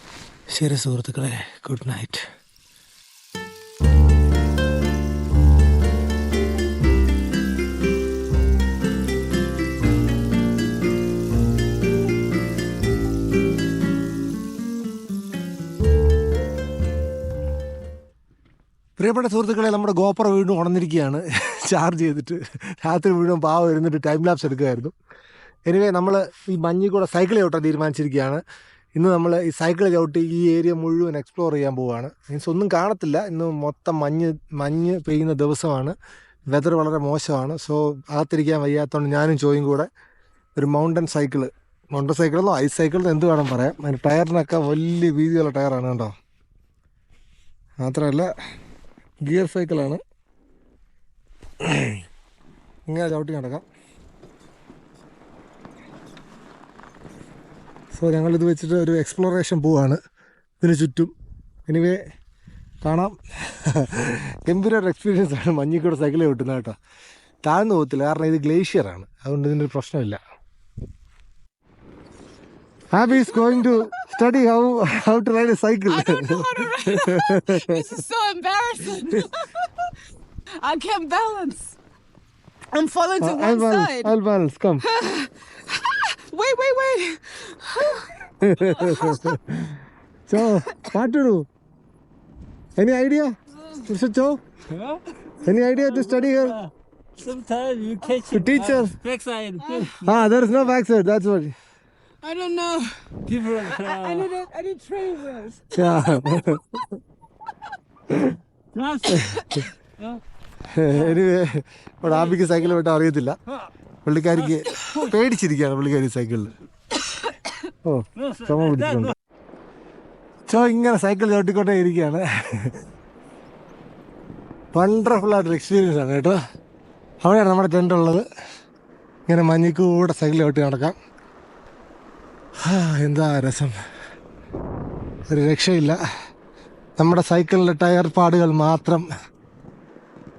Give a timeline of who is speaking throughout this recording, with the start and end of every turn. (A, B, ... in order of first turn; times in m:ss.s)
0:00.5-0:02.2 A
0:19.0-0:24.9 A
0:25.7-0:28.4 A
0:29.0-0:36.0 A
0:36.5-0:39.9 A
0:40.6-0:46.1 A
0:47.8-0:48.3 A
0:49.2-0:50.0 A
0:51.6-0:52.0 A
0:52.9-0:53.6 A
0:57.9-1:00.0 A
1:00.6-1:01.1 A
1:01.7-1:02.0 A
1:02.8-1:06.7 A
1:07.4-1:10.2 A
1:12.9-1:17.7 A
1:15.9-1:19.9 B
1:20.6-1:21.8 B
1:22.7-1:24.1 B
1:23.2-1:24.8 A
1:24.8-1:29.3 B
1:28.4-1:29.7 A
1:30.3-1:31.4 A
1:32.8-1:34.4 A
1:34.7-1:35.0 C
1:35.4-1:36.6 A
1:37.2-1:40.0 C
1:38.3-1:39.0 A
1:39.6-1:39.9 B
1:40.0-1:41.5 A
1:42.2-1:43.0 B
1:43.3-1:44.4 C
1:43.6-1:45.6 B
1:45.7-1:46.8 A
1:48.7-1:49.2 C
1:49.1-1:49.4 A
1:49.2-1:49.6 B
1:50.7-1:53.4 A
1:54.0-1:56.5 A
1:57.8-1:59.1 A
1:58.2-1:59.1 C
2:00.5-2:02.8 A
2:04.7-2:06.4 A
2:07.2-2:08.2 A
2:09.3-2:11.0 A
2:12.6-2:13.7 A
2:15.3-2:16.0 A
2:17.0-2:19.1 A